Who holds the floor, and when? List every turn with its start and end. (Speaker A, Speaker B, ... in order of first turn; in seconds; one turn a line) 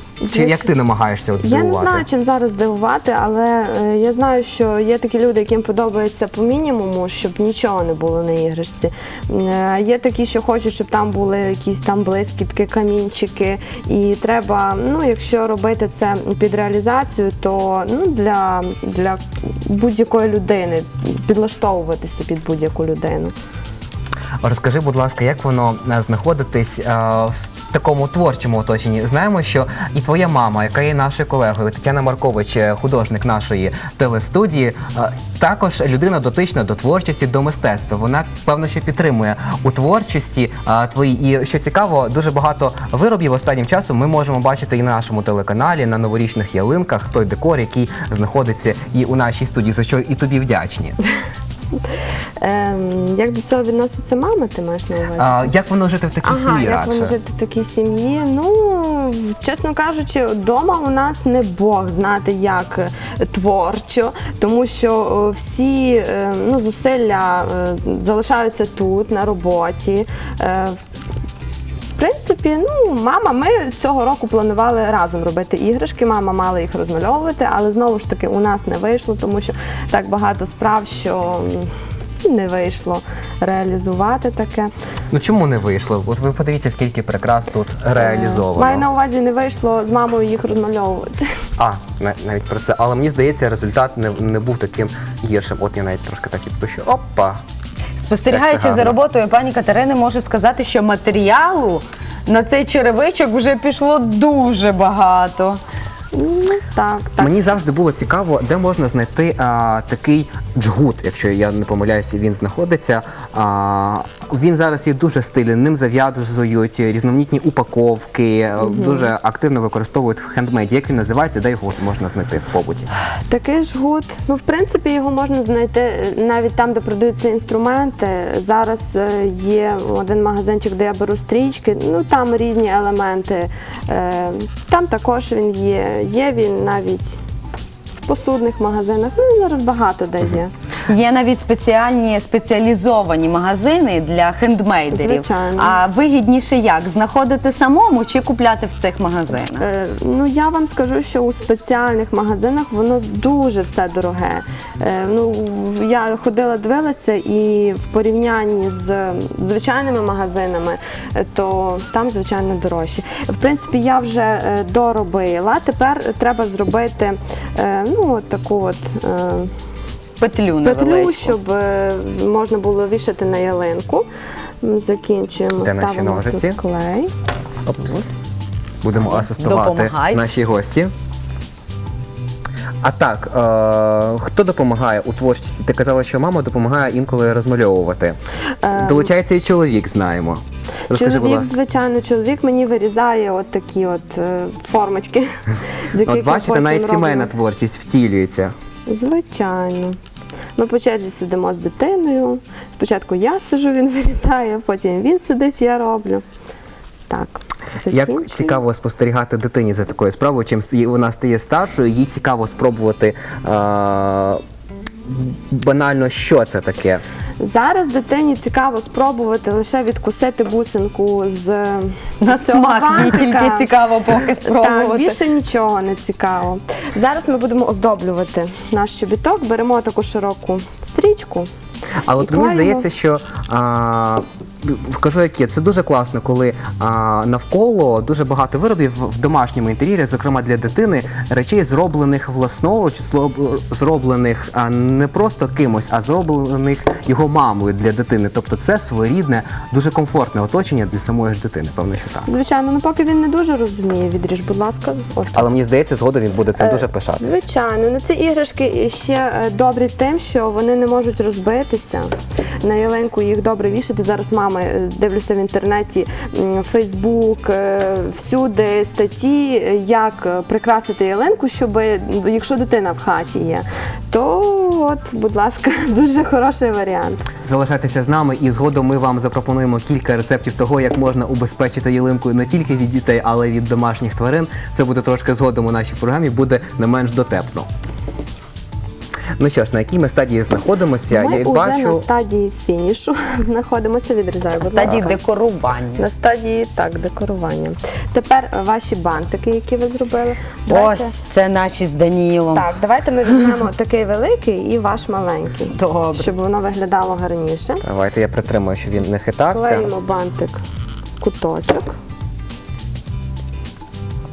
Speaker A: 0.2-0.7
Speaker B: 0.3-2.0
Speaker A: 1.4-23.3
Speaker B: 24.4-51.0
Speaker A: 52.4-55.5
Speaker B: 55.2-57.1
Speaker A: 56.2-70.8
Speaker A: 72.0-81.7
Speaker A: 82.2-84.7
Speaker B: 85.1-88.8
Speaker A: 88.0-91.3
Speaker B: 91.6-97.4
Speaker C: 98.0-105.6
Speaker B: 98.3-99.0
Speaker A: 106.1-107.4
Speaker B: 107.2-122.9
Speaker A: 118.6-119.1
Speaker A: 123.3-137.2
Speaker A: 138.0-140.5
Speaker C: 140.9-149.7
Speaker A: 144.9-145.8
Speaker A: 149.5-169.5
Speaker C: 170.2-171.3
Speaker A: 170.6-174.1
Speaker A: 174.6-177.1
Speaker B: 175.6-176.6
Speaker B: 177.7-178.1
Speaker B: 178.8-180.9
Speaker C: 179.1-180.2
Speaker B: 182.8-188.2
Speaker A: 188.6-189.1
Speaker B: 188.8-191.5
Speaker A: 190.9-195.3
Speaker A: 195.9-197.3
Speaker B: 196.0-198.5
Speaker A: 198.9-200.0
Speaker A: 200.6-206.2
Speaker A: 207.1-208.6
Speaker B: 207.8-214.4
Speaker B: 215.1-217.0
Speaker A: 217.4-223.7
Speaker C: 222.2-225.2
Speaker A: 224.4-231.5
Speaker B: 232.0-252.3
Speaker A: 232.2-232.9
Speaker A: 252.2-255.5
Speaker B: 255.3-257.4
Speaker A: 256.6-262.1
Speaker A: 262.6-277.3
Speaker B: 277.4-287.7
Speaker B: 289.4-292.1
Speaker A: 291.1-295.2
Speaker C: 294.6-296.1
Speaker A: 296.0-301.1
Speaker C: 300.7-302.7
Speaker A: 302.5-307.8
Speaker C: 305.8-306.3
Speaker B: 307.8-309.9
Speaker A: 309.5-310.6
Speaker A: 311.2-311.9